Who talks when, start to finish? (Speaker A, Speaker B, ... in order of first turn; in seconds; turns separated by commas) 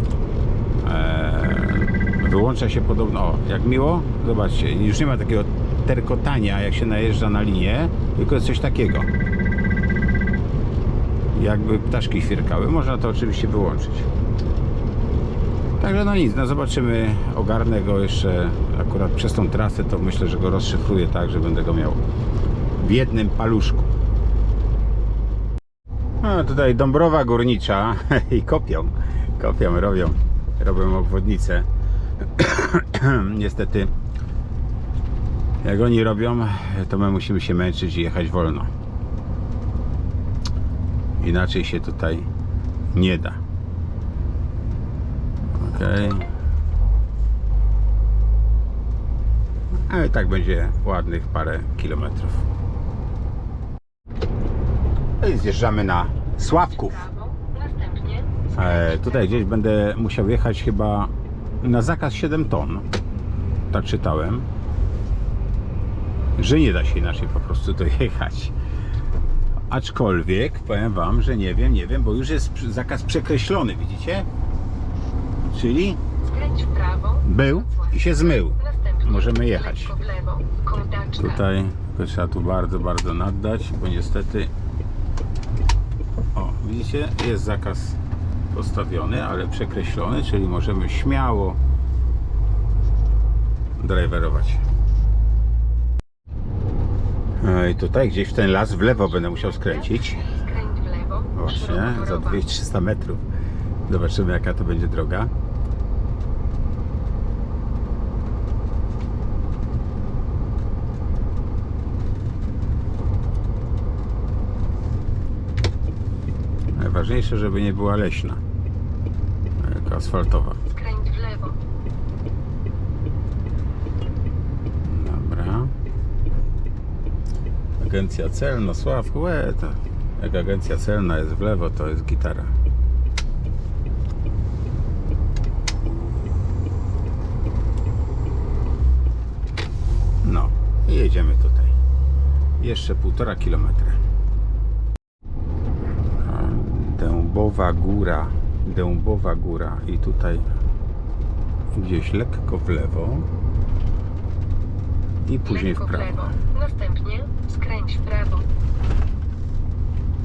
Speaker A: 0.8-9.1, Speaker A: 11.3-14.1, Speaker A: 15.8-22.0, Speaker A: 22.8-23.9, Speaker A: 26.2-31.7, Speaker A: 32.4-33.9, Speaker A: 35.6-38.7, Speaker A: 41.2-42.3, Speaker A: 42.9-43.4, Speaker A: 45.6-46.3, Speaker A: 49.9-52.5, Speaker A: 55.2-57.0, Speaker B: 56.4-59.4, Speaker A: 58.5-62.9, Speaker A: 63.7-64.5, Speaker A: 66.4-68.5, Speaker A: 69.7-74.3, Speaker A: 75.5-76.0, Speaker B: 76.2-81.4, Speaker A: 77.2-79.9, Speaker A: 81.2-84.5, Speaker A: 86.3-88.0, Speaker A: 88.5-91.6, Speaker A: 93.8-94.6, Speaker A: 97.4-100.2, Speaker B: 98.7-102.4, Speaker A: 101.4-103.2, Speaker A: 103.9-105.3, Speaker A: 116.8-118.4, Speaker A: 119.6-120.6, Speaker B: 120.7-121.6, Speaker A: 124.8-125.7, Speaker A: 127.8-132.5, Speaker A: 140.2-141.7, Speaker A: 142.6-144.0, Speaker A: 146.2-150.5, Speaker A: 151.7-153.3, Speaker A: 155.3-156.4, Speaker B: 155.4-158.5